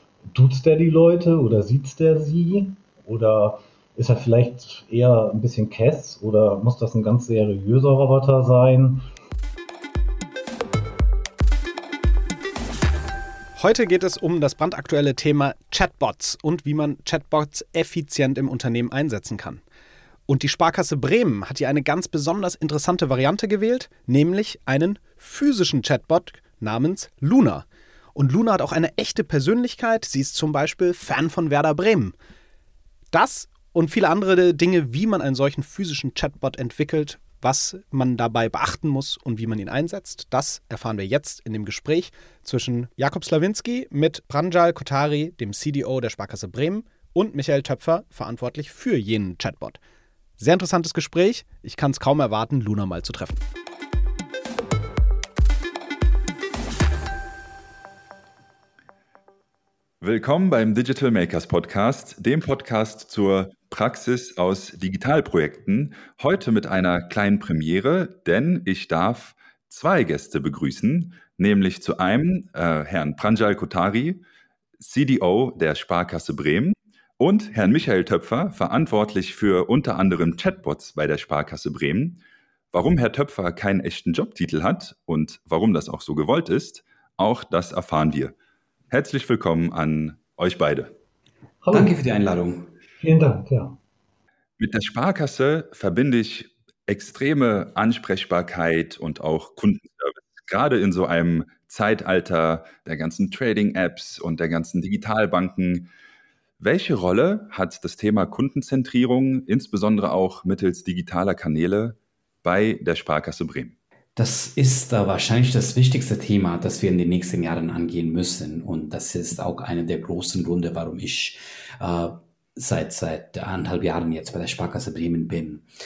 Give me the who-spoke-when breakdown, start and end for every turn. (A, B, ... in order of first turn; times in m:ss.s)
0:00.3-0:09.0 A
0:13.6-0:19.6 B
0:20.3-0:32.1 B
0:33.1-0:49.8 B
0:50.4-0:53.4 B
1:00.0-1:14.2 C
1:14.8-1:22.2 C
1:22.7-1:28.3 C
1:28.9-1:30.9 C
1:31.6-1:32.0 A
1:31.7-1:32.7 D
1:33.0-1:33.8 A
1:34.6-1:45.9 C
1:46.6-1:53.7 C
1:54.2-2:05.6 D